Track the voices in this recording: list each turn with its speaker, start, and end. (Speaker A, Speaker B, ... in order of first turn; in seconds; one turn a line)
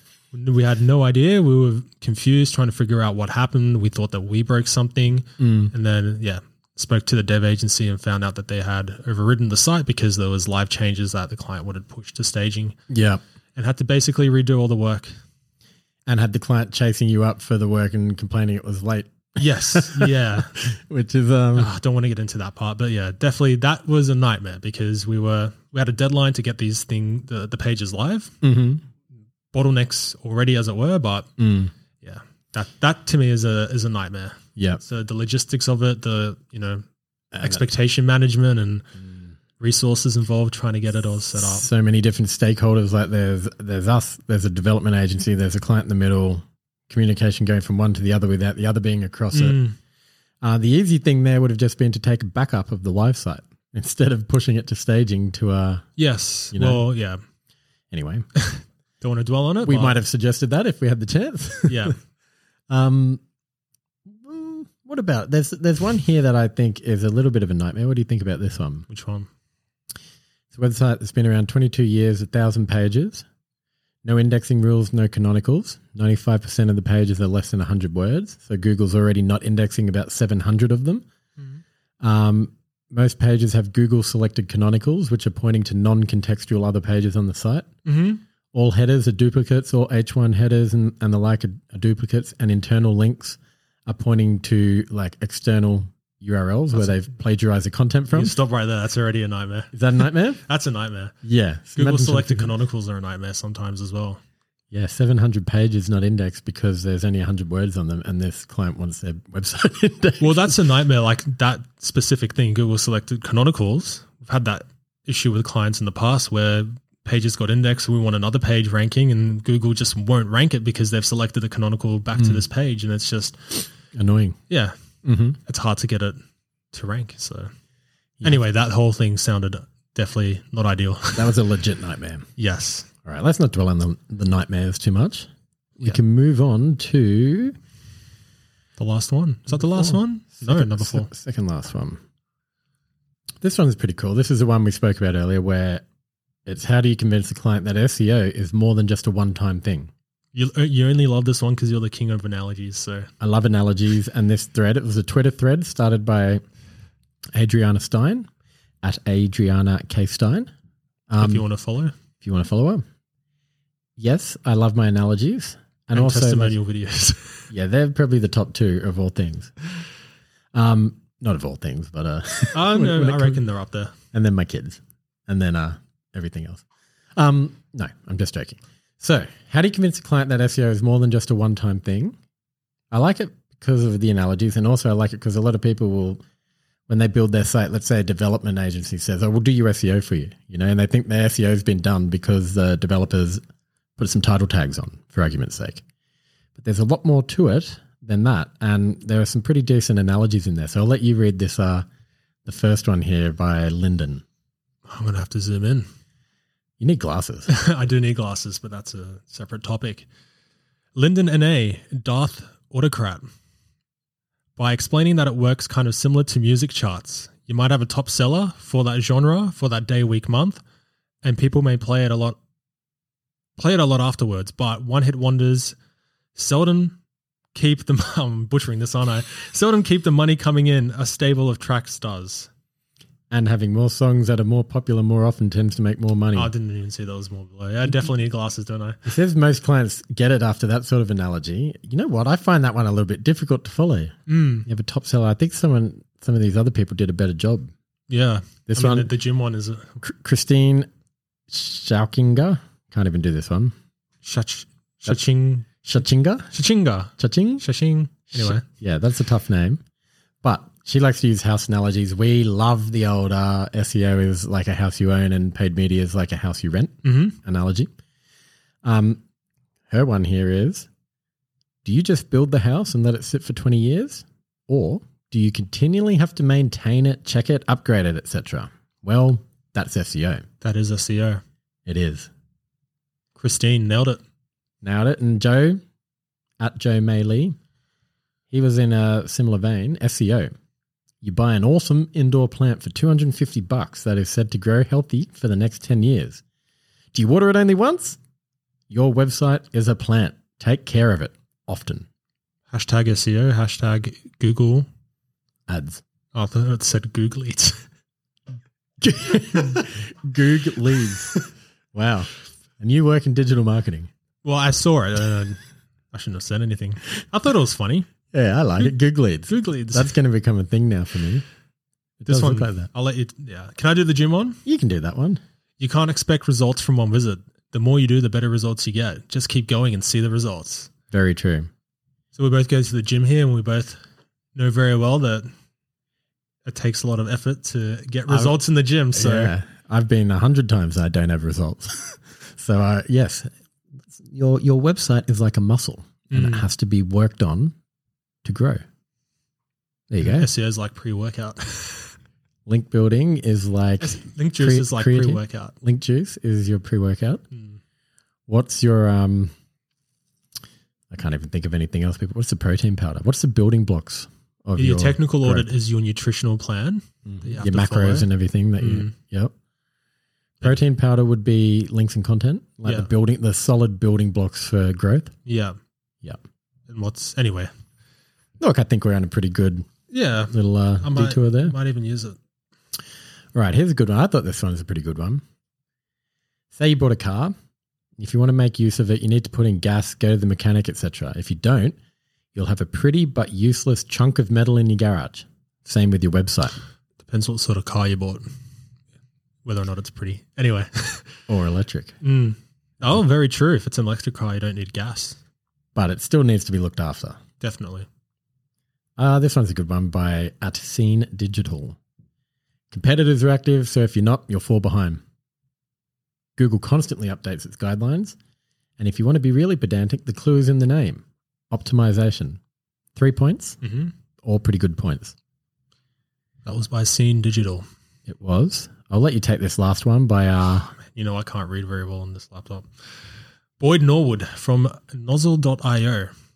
Speaker A: 0.3-12.8
Speaker B: 5.4-5.7
Speaker B: 12.9-13.2
Speaker A: 13.6-15.1
Speaker B: 16.1-21.7
Speaker A: 19.4-20.5
Speaker A: 21.6-28.3
Speaker B: 28.4-28.8
Speaker A: 29.5-31.3
Speaker B: 31.4-31.7
Speaker A: 32.0-36.8
Speaker B: 34.6-34.8
Speaker B: 37.3-37.6
Speaker A: 37.4-38.9
Speaker A: 39.6-41.7
Speaker B: 41.4-49.6
Speaker A: 49.3-49.7
Speaker B: 50.4-55.9
Speaker A: 56.0-57.2
Speaker B: 56.5-56.8
Speaker B: 57.9-58.3
Speaker A: 58.4-60.0
Speaker B: 59.6-61.9
Speaker A: 61.7-61.9
Speaker B: 62.7-63.2
Speaker B: 64.1-68.8
Speaker A: 68.9-69.3
Speaker B: 70.5-73.2
Speaker B: 74.0-81.0
Speaker B: 82.0-87.7
Speaker A: 87.8-88.2
Speaker B: 88.5-98.3
Speaker A: 98.1-101.2
Speaker B: 99.7-100.4
Speaker B: 101.2-102.5
Speaker A: 101.8-104.2
Speaker B: 104.7-110.5
Speaker A: 110.2-123.6
Speaker B: 122.1-122.4
Speaker B: 123.9-124.4
Speaker A: 124.5-124.7
Speaker B: 125.0-125.4
Speaker A: 125.5-126.2
Speaker A: 126.7-127.5
Speaker A: 128.2-131.4
Speaker B: 131.1-132.2
Speaker A: 132.4-132.9
Speaker B: 133.0-135.3
Speaker B: 135.8-137.6
Speaker A: 138.8-141.1
Speaker B: 139.5-142.0
Speaker B: 143.4-145.8
Speaker B: 146.4-149.9
Speaker A: 150.3-153.1
Speaker B: 153.2-156.4
Speaker B: 157.3-158.3
Speaker B: 158.8-160.5
Speaker B: 161.1-161.4
Speaker A: 161.2-161.9
Speaker B: 162.2-162.8
Speaker B: 164.0-166.6
Speaker A: 165.9-167.4
Speaker B: 167.5-169.5
Speaker B: 170.5-173.4
Speaker A: 172.5-173.9
Speaker B: 174.1-176.6
Speaker B: 177.2-182.1
Speaker B: 182.9-186.2
Speaker B: 186.9-193.4
Speaker B: 194.0-195.8
Speaker B: 196.6-201.8
Speaker B: 202.4-204.2
Speaker A: 204.9-205.9
Speaker B: 206.8-207.5
Speaker A: 207.5-210.1
Speaker A: 210.9-213.2
Speaker A: 214.6-220.6
Speaker A: 221.2-222.4
Speaker A: 223.6-225.7
Speaker A: 226.3-226.9
Speaker A: 227.5-232.5
Speaker B: 233.3-236.5
Speaker A: 236.3-239.0
Speaker B: 239.0-247.7
Speaker A: 244.3-244.7
Speaker A: 248.1-250.0
Speaker B: 248.7-249.1
Speaker B: 250.0-250.9
Speaker B: 251.5-253.7
Speaker A: 254.2-255.7
Speaker B: 255.8-256.5
Speaker A: 256.5-258.6
Speaker B: 257.2-257.6
Speaker B: 258.3-259.8
Speaker B: 260.4-267.9
Speaker A: 267.0-267.4
Speaker B: 268.8-269.2
Speaker B: 269.9-270.9
Speaker B: 271.8-280.4
Speaker A: 280.6-281.4
Speaker B: 281.9-282.3
Speaker A: 283.4-284.2
Speaker B: 284.8-285.8
Speaker B: 286.6-287.6
Speaker B: 288.5-290.5
Speaker B: 291.2-296.4
Speaker B: 297.1-298.2
Speaker B: 298.9-302.1
Speaker A: 302.7-304.9
Speaker B: 305.7-306.0
Speaker A: 306.3-307.8
Speaker B: 309.0-314.1
Speaker A: 314.4-315.6
Speaker A: 316.1-318.1
Speaker B: 318.3-321.4
Speaker A: 319.5-320.1
Speaker B: 322.2-322.9
Speaker A: 322.2-324.6
Speaker B: 324.6-325.4
Speaker A: 325.8-330.9
Speaker B: 331.1-331.7
Speaker A: 332.3-334.0
Speaker A: 334.5-335.5
Speaker A: 336.6-339.5
Speaker B: 338.3-338.6
Speaker B: 339.1-343.5
Speaker B: 344.1-347.7
Speaker A: 346.3-346.7
Speaker B: 348.4-348.8
Speaker B: 350.1-350.5
Speaker A: 350.2-352.1
Speaker B: 352.6-357.4
Speaker A: 354.0-355.7
Speaker A: 357.5-357.8
Speaker B: 358.5-359.5
Speaker B: 361.1-365.7
Speaker A: 364.8-368.3
Speaker B: 367.2-369.5
Speaker A: 368.8-369.1
Speaker B: 370.6-375.3
Speaker A: 375.4-375.8
Speaker A: 376.9-377.7
Speaker B: 378.6-379.9
Speaker A: 380.1-382.4
Speaker B: 380.5-381.7
Speaker B: 383.5-385.4
Speaker B: 386.7-387.5
Speaker B: 388.2-392.0
Speaker B: 392.5-396.8
Speaker A: 397.2-398.4
Speaker A: 399.6-401.4
Speaker B: 401.5-402.1
Speaker A: 402.2-405.4
Speaker B: 405.9-407.4
Speaker A: 407.6-408.1
Speaker B: 409.2-412.0
Speaker B: 412.9-415.2
Speaker B: 416.6-418.4
Speaker B: 419.0-422.6
Speaker B: 423.1-423.8
Speaker A: 423.8-424.1
Speaker B: 424.4-425.3
Speaker A: 426.6-427.9
Speaker B: 428.3-430.9
Speaker A: 430.9-432.9
Speaker A: 433.8-436.3